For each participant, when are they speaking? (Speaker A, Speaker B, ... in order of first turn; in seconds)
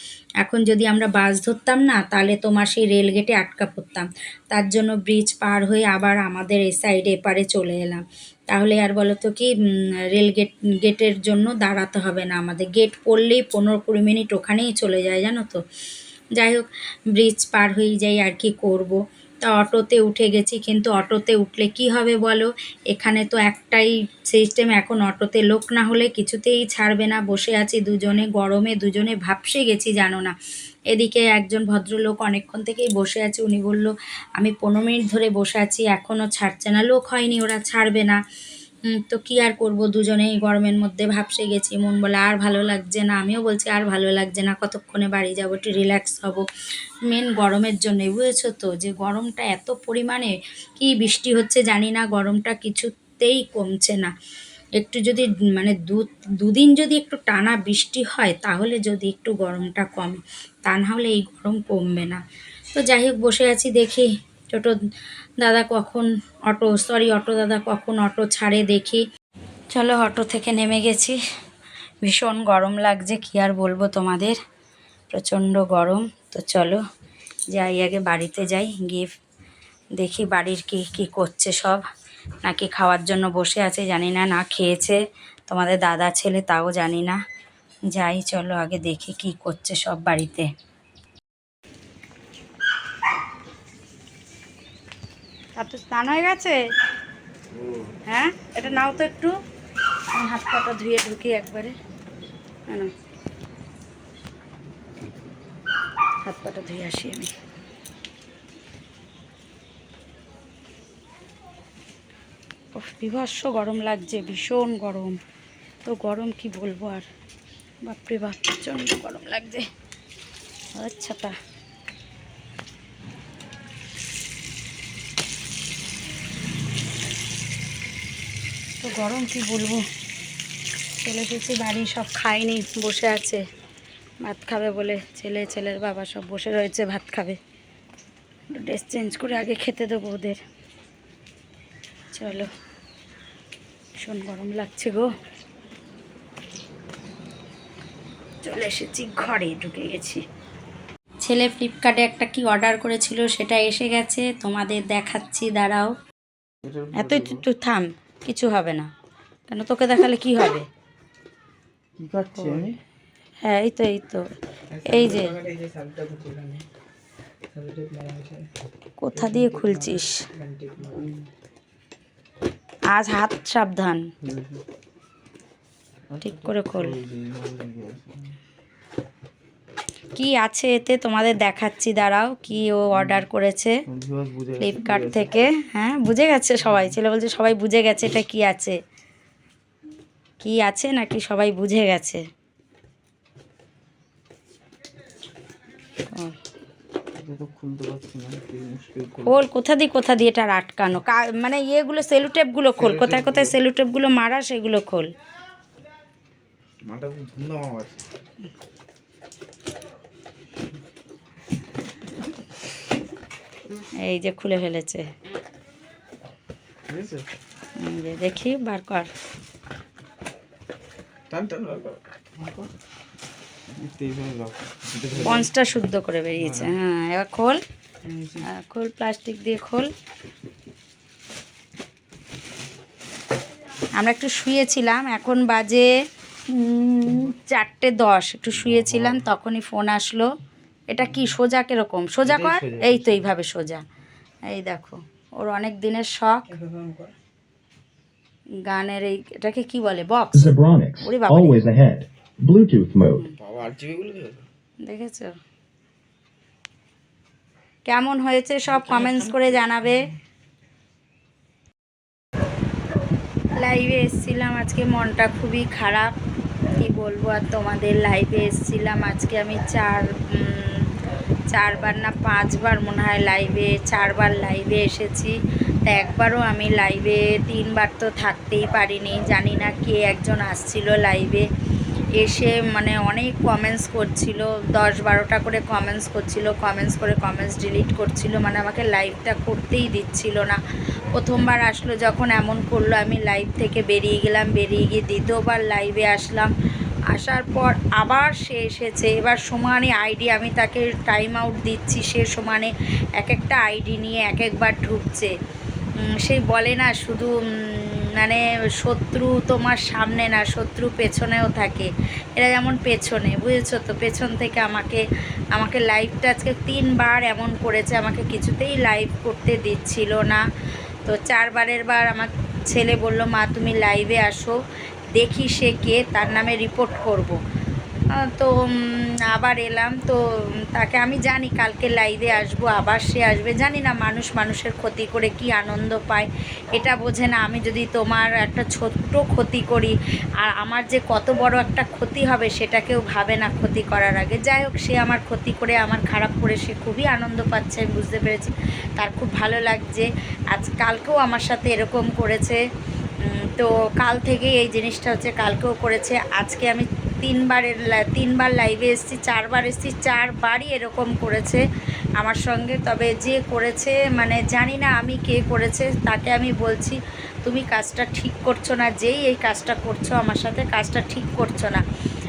Speaker A: 0.4-9.5, 10.1-15.6, 16.4-30.4, 30.9-38.2, 38.9-46.4, 47.1-54.1, 54.8-62.2, 62.8-64.8, 65.4-69.0, 69.7-71.2, 72.0-74.4, 75.1-76.8, 77.5-79.1, 80.0-81.8, 82.4-87.2, 87.9-90.5, 95.6-96.6, 98.1-99.3, 100.1-101.8, 106.2-107.3, 112.7-115.2, 115.8-117.1, 117.8-119.7, 120.8-121.3, 128.8-129.8, 131.0-133.4, 134.2-137.4, 138.5-140.4, 142.1-142.5, 144.0-145.1, 148.4-150.2, 151.2-155.9, 156.9-158.9, 159.5-160.7, 162.3-162.7, 163.4-164.3, 164.9-165.4, 169.0-170.2, 172.9-174.1, 176.2-177.0, 180.2-183.8, 184.6-188.8, 190.4-192.2, 199.2-205.1, 214.0-215.1, 217.8-219.1, 225.2-227.6, 228.5-229.9, 234.0-235.9, 236.5-240.3, 240.9-243.8, 244.5-246.5, 248.7-251.6, 254.8-255.3, 257.9-260.1, 263.6-266.1, 266.8-270.9, 271.5-275.4, 275.9-281.5, 282.2-290.6, 291.1-296.5, 297.1-305.3, 306.0-315.0, 315.6-320.4, 321.1-324.6, 325.2-327.4, 328.2-330.2, 330.7-352.6, 353.3-361.6, 362.2-371.8
Speaker B: 97.5-97.9, 156.6-157.4, 162.0-162.8, 164.7-166.7, 167.5-168.4, 169.1-171.3, 174.2-174.6, 176.1-178.3, 182.9-183.2, 183.9-185.4, 186.7-186.9, 197.2-199.4, 202.8-203.5, 206.8-208.0, 216.9-217.3, 221.3-222.7, 223.7-225.5, 226.4-226.7, 228.0-228.5, 238.6-239.2, 242.2-243.3, 246.5-247.1, 253.4-254.4, 258.7-259.7
Speaker C: 250.3-253.3